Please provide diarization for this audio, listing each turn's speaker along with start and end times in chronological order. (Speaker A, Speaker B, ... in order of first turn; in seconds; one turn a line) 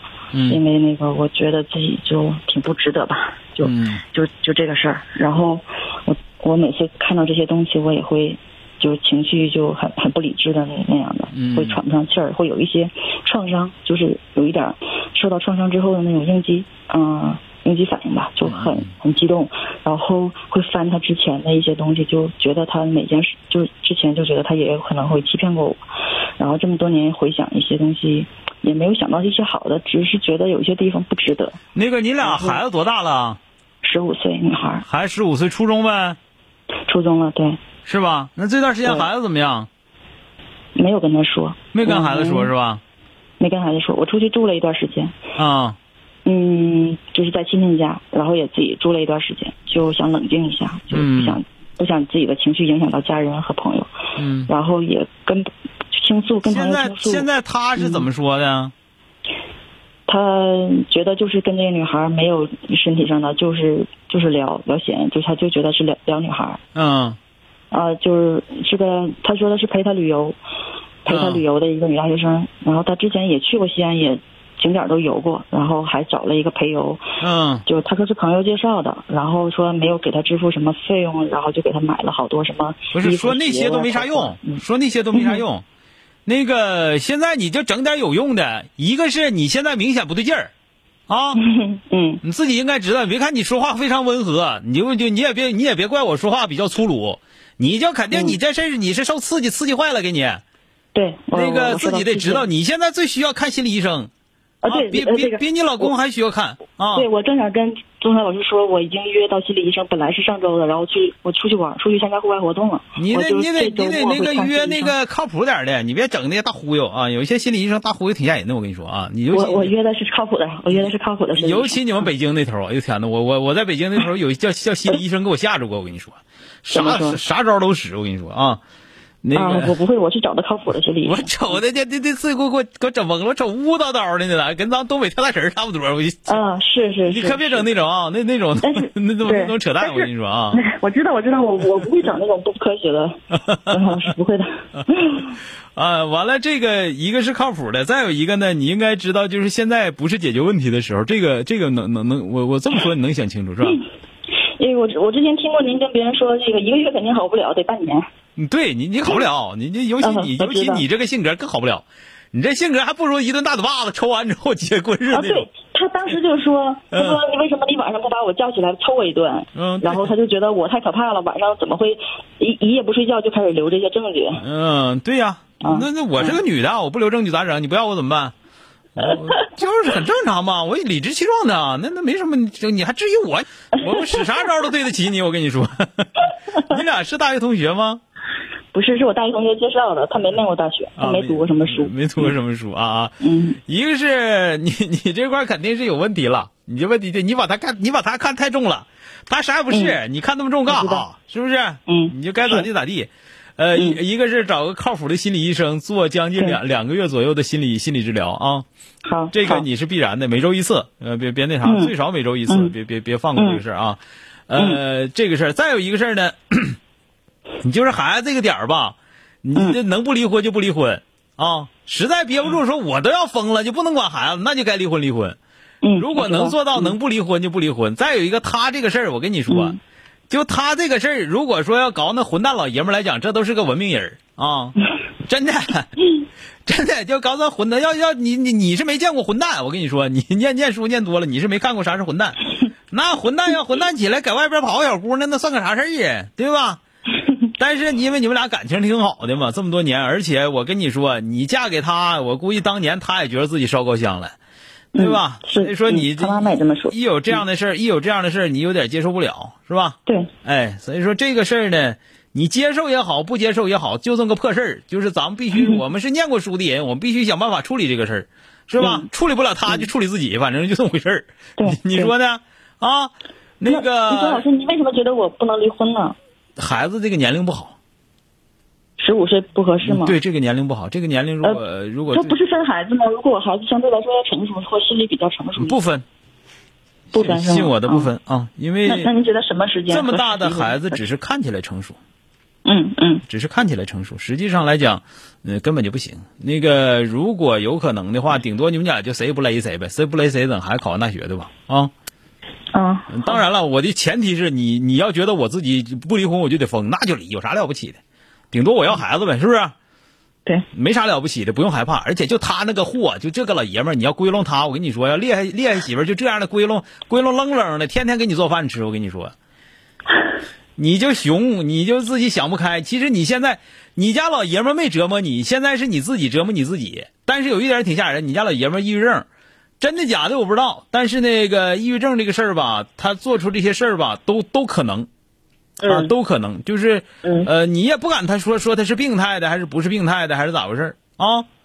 Speaker A: 0.3-0.6
Speaker B: 0.5-25.8
Speaker A: 3.6-4.0
Speaker A: 11.3-11.8
Speaker A: 18.5-18.9
Speaker B: 26.4-31.6
Speaker A: 31.8-33.4
Speaker B: 32.2-32.6
Speaker B: 33.8-34.9
Speaker A: 34.8-36.2
Speaker B: 36.9-37.6
Speaker A: 37.9-39.7
Speaker B: 40.8-42.5
Speaker A: 41.7-42.8
Speaker B: 43.4-45.1
Speaker A: 45.4-45.8
Speaker B: 46.2-53.9
Speaker A: 50.9-51.4
Speaker A: 54.2-54.5
Speaker B: 54.5-58.1
Speaker A: 56.5-58.7
Speaker B: 60.1-66.6
Speaker A: 66.8-67.2
Speaker B: 67.7-70.4
Speaker B: 71.0-77.0
Speaker A: 71.1-71.4
Speaker A: 77.2-77.7
Speaker B: 77.7-85.4
Speaker A: 82.9-85.7
Speaker A: 86.3-90.5
Speaker A: 91.1-91.4
Speaker B: 91.4-92.2
Speaker A: 92.2-100.4
Speaker B: 98.1-98.4
Speaker B: 100.9-102.5
Speaker A: 101.3-104.1
Speaker B: 104.6-105.9
Speaker A: 104.7-107.1
Speaker B: 106.9-115.0
Speaker A: 113.0-119.7
Speaker B: 119.3-122.1
Speaker A: 120.7-128.6
Speaker B: 126.7-127.2
Speaker A: 129.2-129.8
Speaker B: 129.3-131.6
Speaker A: 131.0-136.4
Speaker B: 136.3-137.7
Speaker A: 137.1-140.6
Speaker B: 138.6-145.3
Speaker A: 145.8-153.8
Speaker B: 154.6-158.0
Speaker A: 158.4-165.5
Speaker B: 160.0-160.8
Speaker B: 165.1-174.4
Speaker A: 166.9-167.2
Speaker A: 169.6-170.1
Speaker A: 174.4-178.3
Speaker B: 175.6-176.4
Speaker A: 179.0-188.0
Speaker B: 179.1-179.4
Speaker B: 188.7-192.3
Speaker A: 191.0-193.2
Speaker B: 193.2-193.6
Speaker A: 193.7-208.7
Speaker B: 199.7-200.0
Speaker B: 200.7-201.1
Speaker B: 201.9-202.7
Speaker B: 203.8-204.0
Speaker B: 209.1-209.7
Speaker A: 209.3-216.8
Speaker B: 211.6-211.9
Speaker B: 212.5-212.7
Speaker B: 213.4-213.6
Speaker B: 214.6-214.8
Speaker A: 217.6-225.4
Speaker B: 225.8-226.9
Speaker A: 226.0-229.8
Speaker B: 229.5-229.8
Speaker A: 230.3-234.8
Speaker A: 235.3-235.9
Speaker A: 236.7-242.4
Speaker A: 242.9-246.8
Speaker A: 247.6-254.3
Speaker B: 254.9-257.4
Speaker A: 255.0-274.4
Speaker B: 260.1-260.3
Speaker B: 265.5-265.8
Speaker B: 268.8-269.1
Speaker B: 271.6-272.1
Speaker B: 273.6-276.2
Speaker A: 276.6-277.8
Speaker B: 279.0-280.2
Speaker A: 279.8-282.4
Speaker B: 281.4-285.8
Speaker A: 285.6-286.1
Speaker B: 287.1-288.1
Speaker A: 287.1-289.1
Speaker B: 288.9-291.0
Speaker A: 289.9-292.0
Speaker B: 292.6-293.2
Speaker A: 293.3-301.9
Speaker B: 302.7-303.4
Speaker A: 303.1-308.0
Speaker A: 308.5-309.7
Speaker A: 310.7-319.3
Speaker A: 320.8-329.3
Speaker A: 329.8-335.1
Speaker B: 335.8-336.1
Speaker A: 335.8-341.5
Speaker B: 337.2-337.5